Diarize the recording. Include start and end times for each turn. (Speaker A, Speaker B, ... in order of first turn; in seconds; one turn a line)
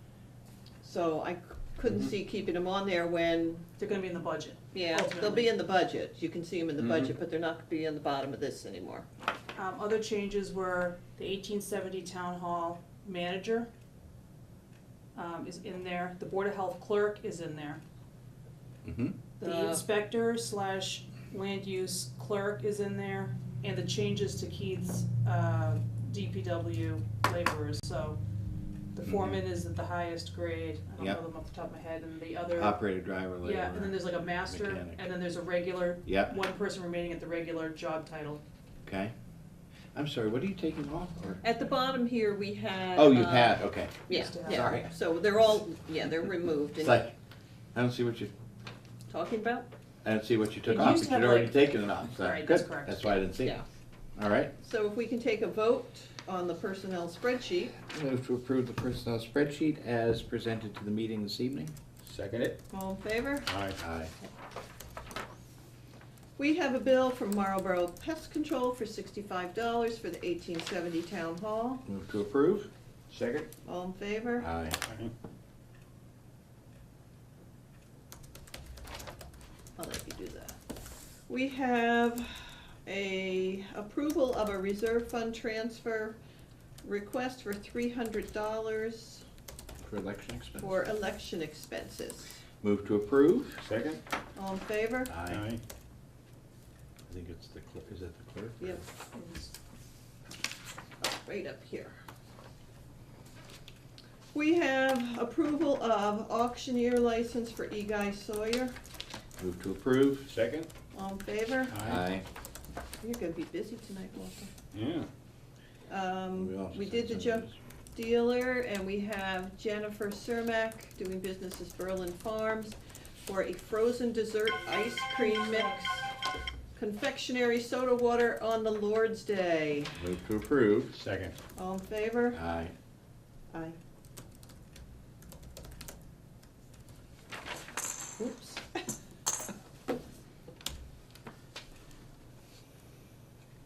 Speaker A: 0.8-3.6
Speaker B: 1.9-2.1
Speaker C: 3.8-5.5
Speaker A: 4.7-9.1
Speaker B: 6.8-7.1
Speaker C: 9.6-13.7
Speaker C: 15.1-17.8
Speaker D: 18.8-19.2
Speaker C: 19.4-28.2
Speaker A: 19.4-19.8
Speaker C: 28.9-32.8
Speaker D: 29.0-29.4
Speaker D: 32.5-35.0
Speaker C: 33.4-38.4
Speaker D: 36.0-36.3
Speaker D: 38.8-39.1
Speaker D: 39.9-41.4
Speaker A: 41.4-47.0
Speaker D: 43.0-44.9
Speaker C: 44.1-44.7
Speaker D: 46.8-47.1
Speaker D: 47.7-48.3
Speaker A: 49.1-49.7
Speaker D: 50.0-53.6
Speaker C: 50.6-53.1
Speaker D: 54.1-54.5
Speaker A: 54.6-57.8
Speaker D: 57.8-61.7
Speaker B: 62.0-62.6
Speaker A: 62.7-63.5
Speaker B: 63.5-63.8
Speaker D: 63.8-64.1
Speaker A: 66.4-71.8
Speaker D: 71.8-72.7
Speaker B: 73.1-73.5
Speaker A: 73.6-74.5
Speaker D: 74.4-74.8
Speaker B: 74.8-75.1
Speaker A: 79.8-80.5
Speaker A: 81.3-86.2
Speaker A: 86.8-89.2
Speaker D: 89.8-90.8
Speaker A: 90.6-92.3
Speaker D: 92.6-93.6
Speaker B: 93.6-94.0
Speaker A: 94.3-95.1
Speaker D: 95.1-95.4
Speaker B: 95.2-95.6
Speaker D: 97.1-98.8
Speaker C: 99.1-99.5
Speaker A: 101.0-101.9
Speaker A: 104.3-108.7
Speaker D: 109.4-110.3
Speaker B: 110.3-110.7
Speaker A: 110.9-111.8
Speaker B: 111.7-112.0
Speaker D: 111.8-112.2
Speaker A: 113.0-114.5
Speaker B: 114.7-115.1
Speaker A: 115.9-126.1
Speaker D: 116.3-117.5
Speaker A: 126.8-129.9
Speaker D: 130.0-131.0
Speaker B: 130.9-131.4
Speaker A: 131.6-132.4
Speaker D: 132.3-132.7
Speaker A: 133.5-133.8
Speaker A: 138.2-138.6